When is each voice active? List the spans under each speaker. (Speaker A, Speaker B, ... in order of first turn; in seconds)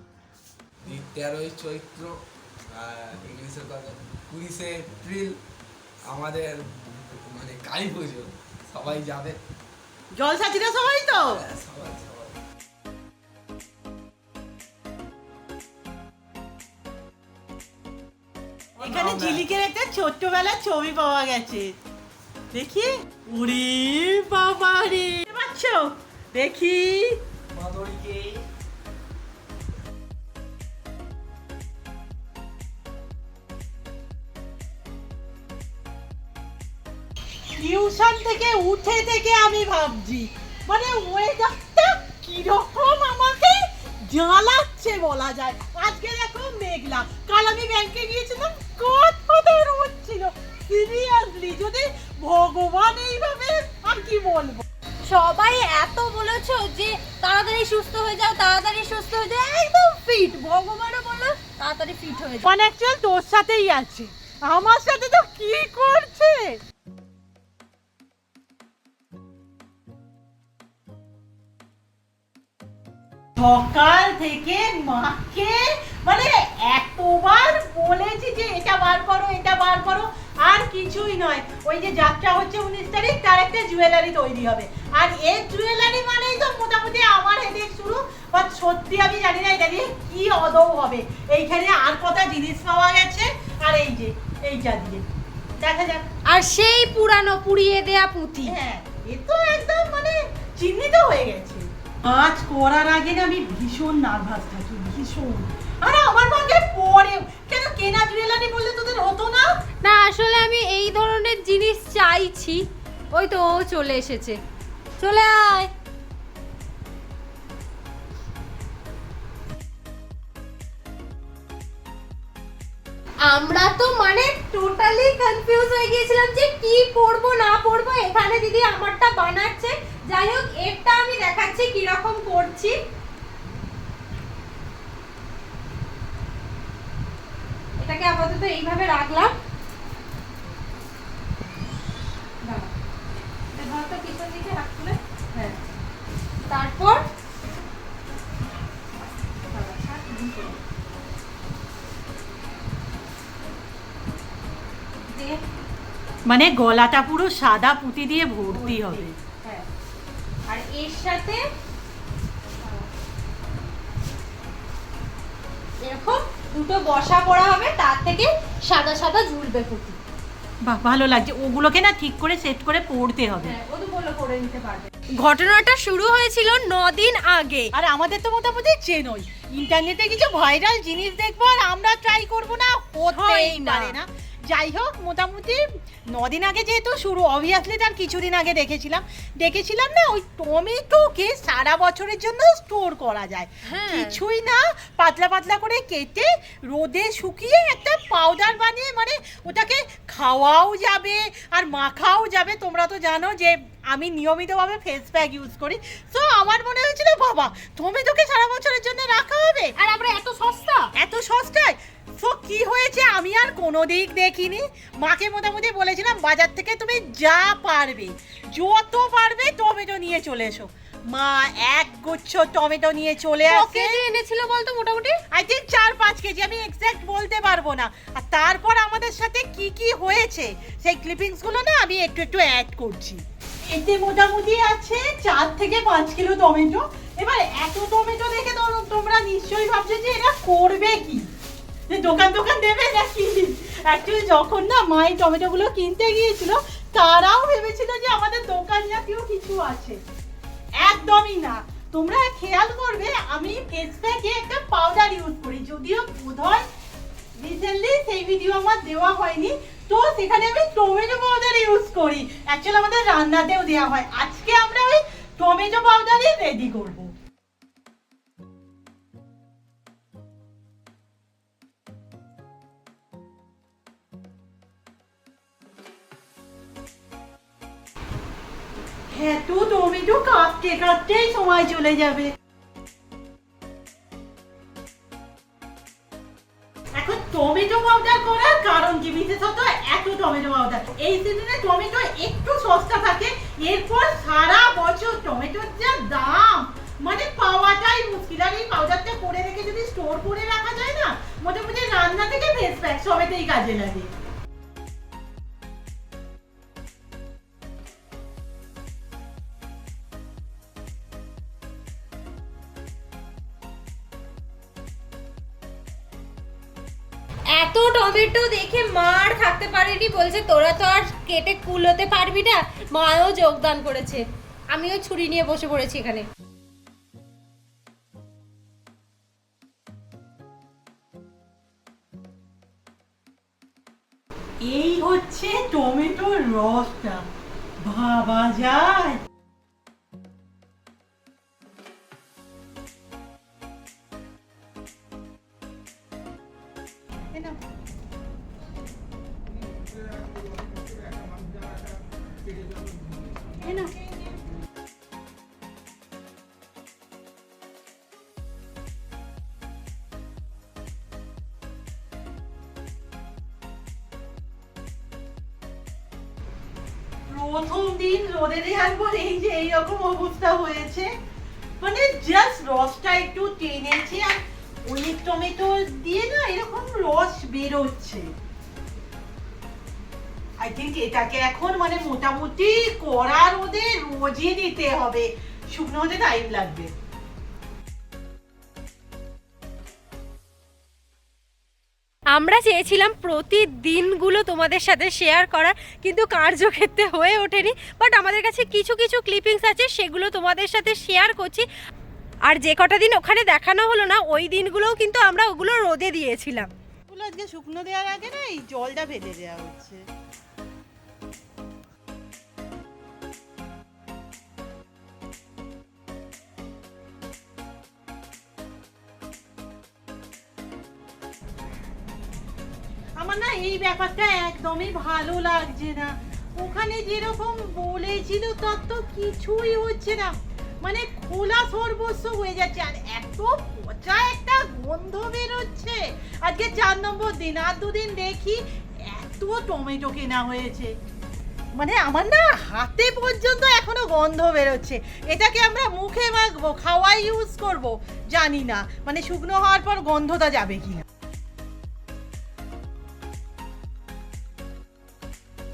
Speaker A: 0.8-2.2, 2.7-5.4, 6.1-9.4, 11.2-12.4, 18.8-19.4, 27.6-28.4
Speaker B: 10.1-11.4, 18.8-21.8, 22.5-27.2, 37.6-54.6, 62.4-66.6, 73.4-95.0, 95.6-96.0, 98.4-109.5, 156.2-159.1, 170.6-173.5, 177.7-209.7, 210.9-224.0, 225.3-241.3, 241.9-250.0, 250.8-256.6, 257.4-267.1, 279.1-282.3, 286.9-304.1, 334.6-337.2, 337.8-339.2, 347.3-347.6, 353.6-353.9, 367.3-371.1, 371.8-378.3, 380.6-386.9, 407.1-410.0, 423.2-440.9, 441.8-451.0
Speaker C: 55.0-62.5, 96.3-98.5, 109.8-112.6, 113.1-114.4, 115.0-115.7, 123.2-132.8, 137.8-139.3, 142.4-142.7, 143.5-145.6, 146.4-147.0, 149.5-150.6, 155.1-155.4, 158.5-159.6, 160.5-161.4, 162.6-162.9, 165.8-170.0, 173.4-177.7, 183.1-183.9, 193.6-194.2, 209.8-210.9, 223.4-225.2, 317.5-326.2, 392.3-401.7, 402.4-406.7